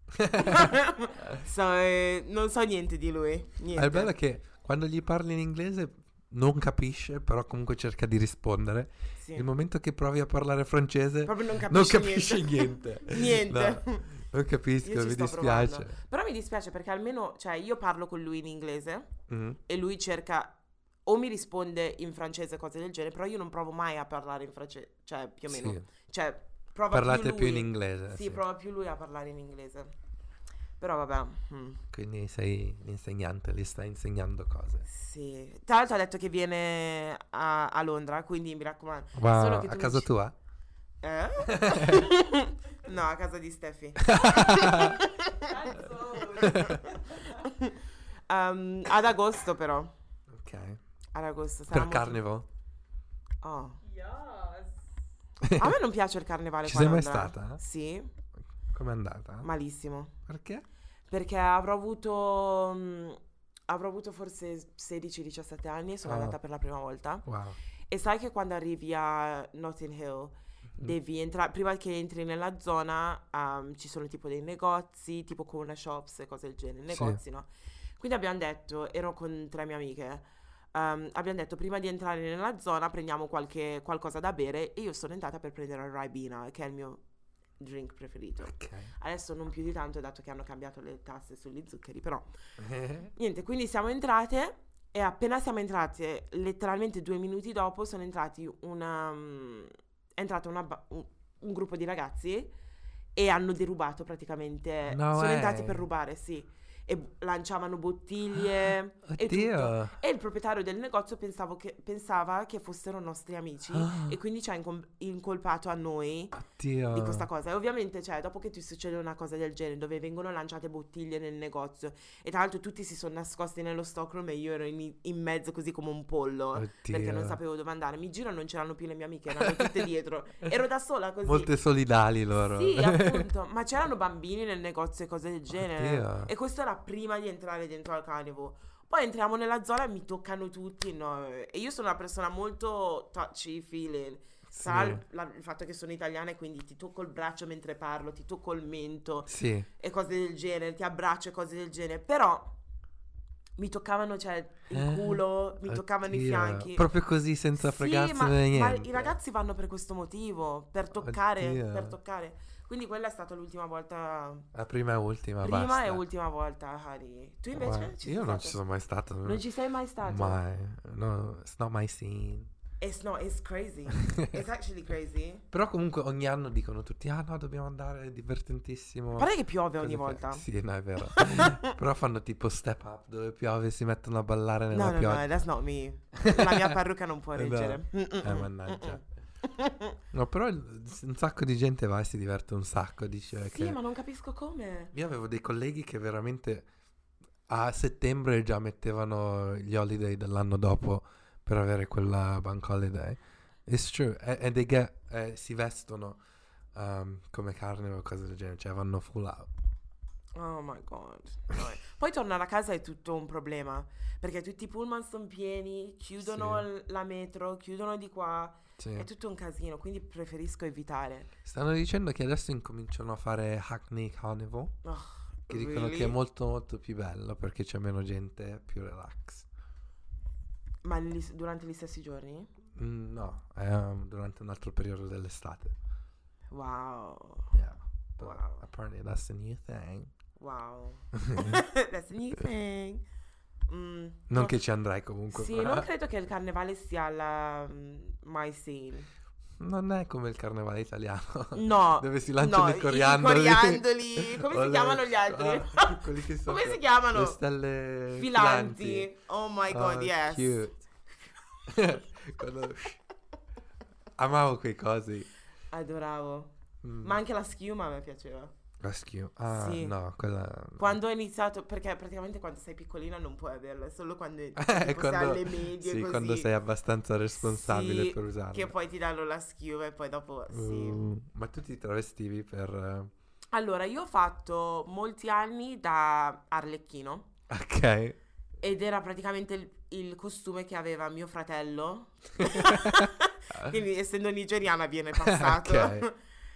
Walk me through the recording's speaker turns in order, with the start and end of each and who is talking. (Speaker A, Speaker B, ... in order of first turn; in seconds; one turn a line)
Speaker A: 0.2-0.7
Speaker B: 0.3-4.1
Speaker A: 3.8-16.0
Speaker B: 9.2-9.5
Speaker B: 11.2-14.2
Speaker B: 14.8-19.1
Speaker A: 19.3-19.6
Speaker B: 19.7-29.9
Speaker A: 25.5-25.9
Speaker A: 26.9-28.4
Speaker B: 30.8-31.8
Speaker A: 31.9-34.9
Speaker B: 34.9-40.1
Speaker A: 39.1-40.4
Speaker B: 41.0-49.9
Speaker A: 41.5-42.1
Speaker A: 44.0-45.1
Speaker C: 44.6-47.5
Speaker A: 46.4-47.0
Speaker A: 50.3-50.8
Speaker B: 51.1-52.2
Speaker A: 51.7-52.5
Speaker B: 53.4-53.8
Speaker C: 53.8-54.8
Speaker A: 55.4-55.8
Speaker B: 55.6-58.1
Speaker A: 56.6-57.6
Speaker A: 58.7-59.5
Speaker B: 59.4-60.1
Speaker A: 60.3-60.7
Speaker B: 61.1-67.2
Speaker A: 66.0-66.4
Speaker A: 67.2-67.6
Speaker B: 67.9-87.0
Speaker A: 76.9-77.2
Speaker B: 87.6-92.3
Speaker A: 88.4-88.9
Speaker A: 92.6-93.1
Speaker B: 93.2-102.5
Speaker B: 103.2-116.4
Speaker A: 104.9-105.9
Speaker A: 108.4-110.0
Speaker A: 113.7-114.2
Speaker A: 116.3-117.3
Speaker B: 116.9-131.5
Speaker A: 126.5-127.4
Speaker A: 129.4-129.8
Speaker A: 131.2-133.3
Speaker B: 132.5-152.6
Speaker A: 135.5-136.3
Speaker A: 144.5-145.0
Speaker A: 149.3-149.7
Speaker B: 153.6-156.9
Speaker A: 154.7-159.2
Speaker B: 157.6-164.5
Speaker A: 160.9-162.0
Speaker A: 164.5-166.0
Speaker B: 165.4-168.6
Speaker A: 167.5-169.4
Speaker B: 169.2-170.4
Speaker A: 170.0-172.5
Speaker B: 172.8-175.4
Speaker A: 174.0-174.4
Speaker A: 175.5-185.3
Speaker B: 179.2-180.4
Speaker B: 181.0-181.7
Speaker B: 184.7-190.0
Speaker A: 186.2-186.8
Speaker A: 187.4-189.0
Speaker A: 190.1-193.8
Speaker B: 193.4-194.9
Speaker A: 194.9-196.7
Speaker A: 197.5-206.2
Speaker A: 206.8-209.5
Speaker B: 210.3-221.3
Speaker A: 216.2-216.7
Speaker A: 218.8-219.1
Speaker A: 221.4-224.8
Speaker B: 224.8-226.2
Speaker A: 225.5-229.5
Speaker B: 230.8-232.5
Speaker A: 232.8-235.8
Speaker B: 236.5-237.6
Speaker A: 237.5-240.1
Speaker B: 238.2-238.7
Speaker B: 240.4-243.0
Speaker A: 241.1-241.6
Speaker B: 243.7-244.6
Speaker A: 244.3-245.9
Speaker B: 245.3-249.1
Speaker A: 249.6-259.1
Speaker B: 251.5-257.4
Speaker B: 258.1-260.6
Speaker A: 259.7-260.8
Speaker A: 261.7-263.0
Speaker A: 264.2-265.3
Speaker B: 265.7-268.5
Speaker A: 266.8-267.2
Speaker A: 268.8-271.0
Speaker B: 269.5-270.0
Speaker B: 270.8-276.5
Speaker A: 274.6-278.7
Speaker B: 277.4-281.1
Speaker A: 280.5-283.1
Speaker B: 283.5-287.3
Speaker A: 287.5-288.2
Speaker B: 288.6-296.2
Speaker A: 292.4-293.6
Speaker A: 295.2-296.1